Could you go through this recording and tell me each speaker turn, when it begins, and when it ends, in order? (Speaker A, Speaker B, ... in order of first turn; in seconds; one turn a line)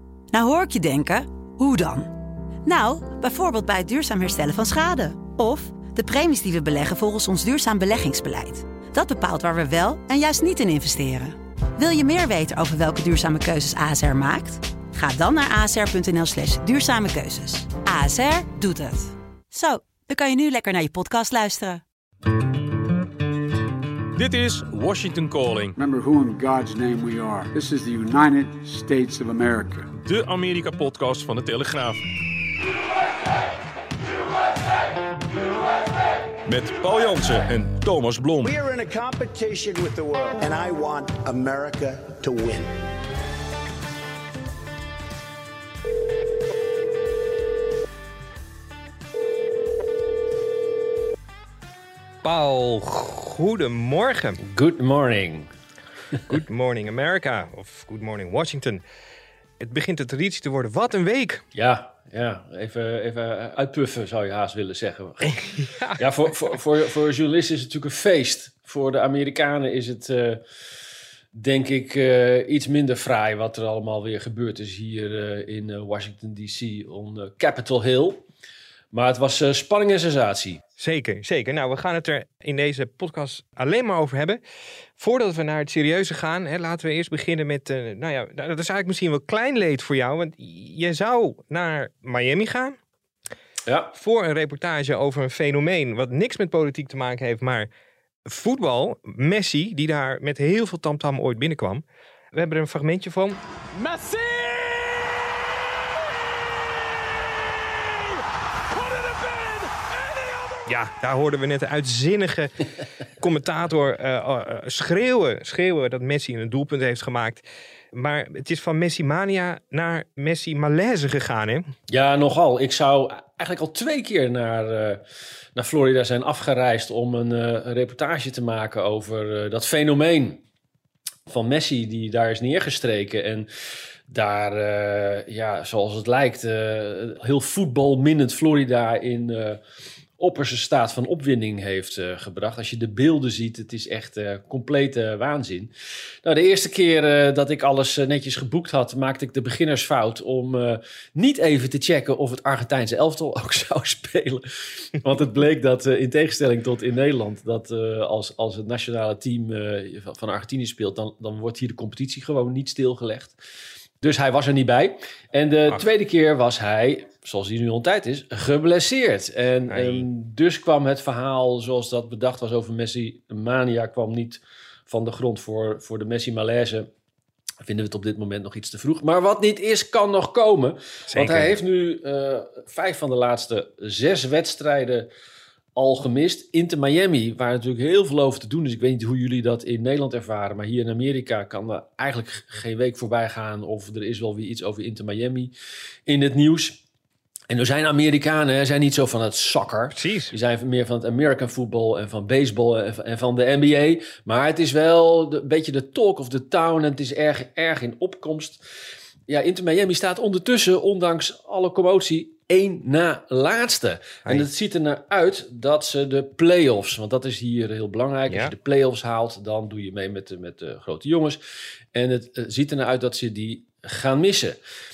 Speaker A: 0.3-2.1
Speaker A: 2.6-21.8
Speaker B: 24.1-25.7
Speaker C: 25.8-29.9
Speaker B: 30.0-32.0
Speaker B: 36.5-38.5
Speaker D: 38.4-42.7
Speaker E: 52.2-54.4
Speaker F: 54.4-55.5
Speaker E: 56.3-58.8
Speaker E: 59.6-61.4
Speaker F: 61.5-70.4
Speaker E: 65.6-66.4
Speaker F: 71.3-78.2
Speaker F: 78.9-80.6
Speaker E: 80.8-84.4
Speaker E: 85.0-92.8
Speaker F: 93.7-93.9
Speaker E: 93.9-97.7
Speaker E: 98.2-101.8
Speaker E: 102.3-103.4
Speaker C: 103.7-105.2
Speaker C: 108.7-110.7
Speaker E: 110.7-112.7
Speaker E: 113.2-121.7
Speaker F: 121.9-125.0
Speaker F: 125.5-130.4
Speaker F: 131.3-133.5
Speaker F: 134.1-139.6
Speaker F: 140.2-145.7
Speaker F: 146.2-154.4
Speaker F: 155.0-163.4
Speaker F: 164.0-176.9
Speaker E: 169.7-170.1
Speaker F: 177.6-185.1
Speaker E: 181.1-181.5
Speaker F: 185.8-195.5
Speaker F: 196.1-196.8
Speaker F: 197.5-208.6
Speaker E: 200.0-200.3
Speaker F: 209.3-221.4
Speaker F: 221.9-224.6